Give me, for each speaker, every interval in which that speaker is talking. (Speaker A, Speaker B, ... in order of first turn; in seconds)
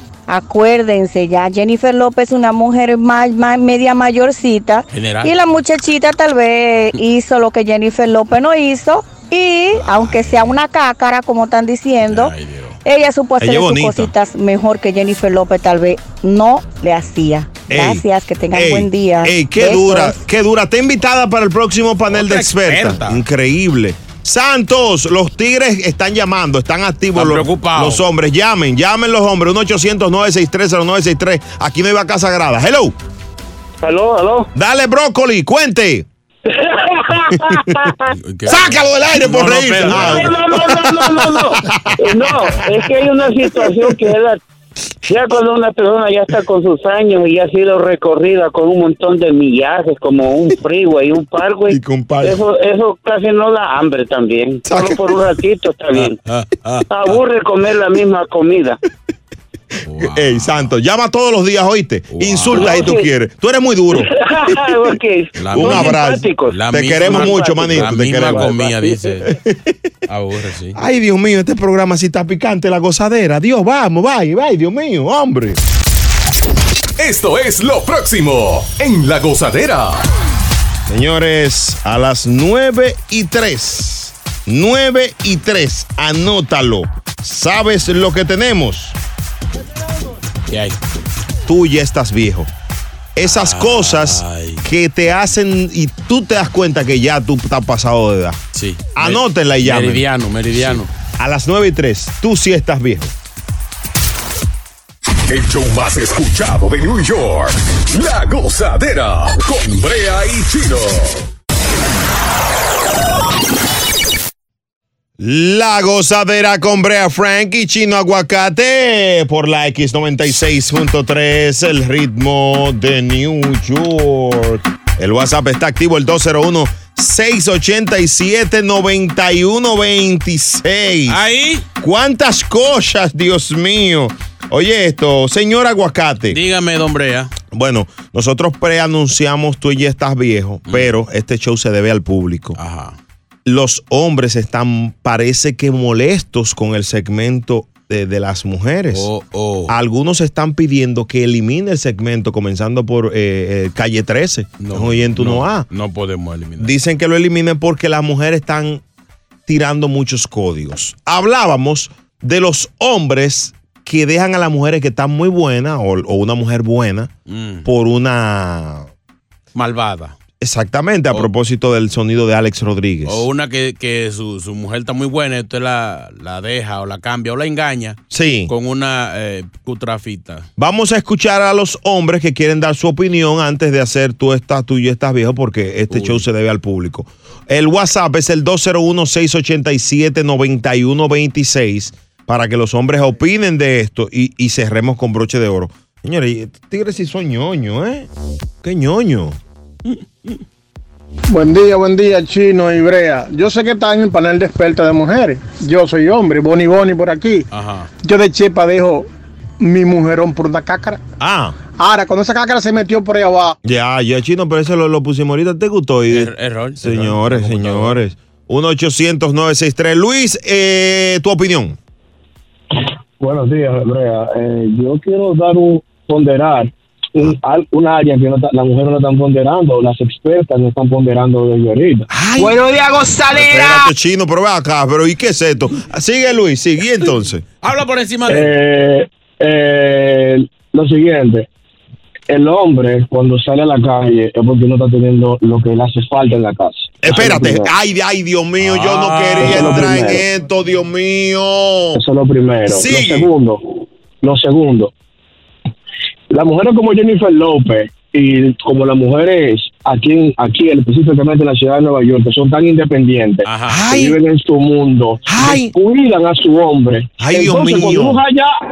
Speaker A: 0.3-12.3, 12.8-20.2
Speaker B: 4.9-5.5, 12.0-12.8, 22.1-23.2, 27.1-28.0, 38.2-40.4, 55.9-57.2, 59.8-60.7, 62.1-62.9, 65.4-69.3, 70.1-70.8, 90.5-90.8, 93.2-94.6, 98.5-100.9, 131.1-131.6, 136.3-137.3, 140.7-140.9, 142.6-143.0, 148.9-149.7, 154.6-156.8, 167.3-167.7, 169.5-170.1, 173.1-180.4, 185.9-186.2, 207.5-207.9, 216.1-218.0, 237.6-238.5, 248.6-250.1, 263.4-264.0
Speaker C: 10.0-10.4, 13.4-14.1, 17.7-32.9, 34.5-36.0, 37.3-37.9, 38.5-42.8, 51.7-52.4, 54.6-55.2, 60.0-64.1, 65.5-68.5, 69.2-69.8, 70.7-75.6, 80.9-89.0, 91.5-92.5, 93.2-98.4, 98.9-103.1, 115.2-131.2, 131.8-136.4, 137.5-142.6, 143.4-149.1, 149.7-155.7, 156.6-158.8, 159.5-167.1, 167.6-168.9, 170.4-173.2, 178.1-178.5, 180.6-198.1, 198.6-199.4, 211.2-211.6, 213.6-221.8, 232.1-232.6, 233.3-237.4, 247.0-252.0, 252.7-253.3, 263.7-264.1, 265.3-265.7, 267.2-268.2
Speaker D: 42.2-44.0, 45.1-56.1, 56.9-58.7, 62.7-63.0, 64.8-66.5, 67.1-67.7
Speaker E: 77.0-80.0, 105.3-111.2
Speaker F: 201.3-207.4, 208.0-209.1, 209.6-211.0, 211.8-213.6
Speaker G: 223.2-232.1, 238.3-241.5, 242.3-247.7, 249.4-250.2, 251.9-254.9, 256.3-268.5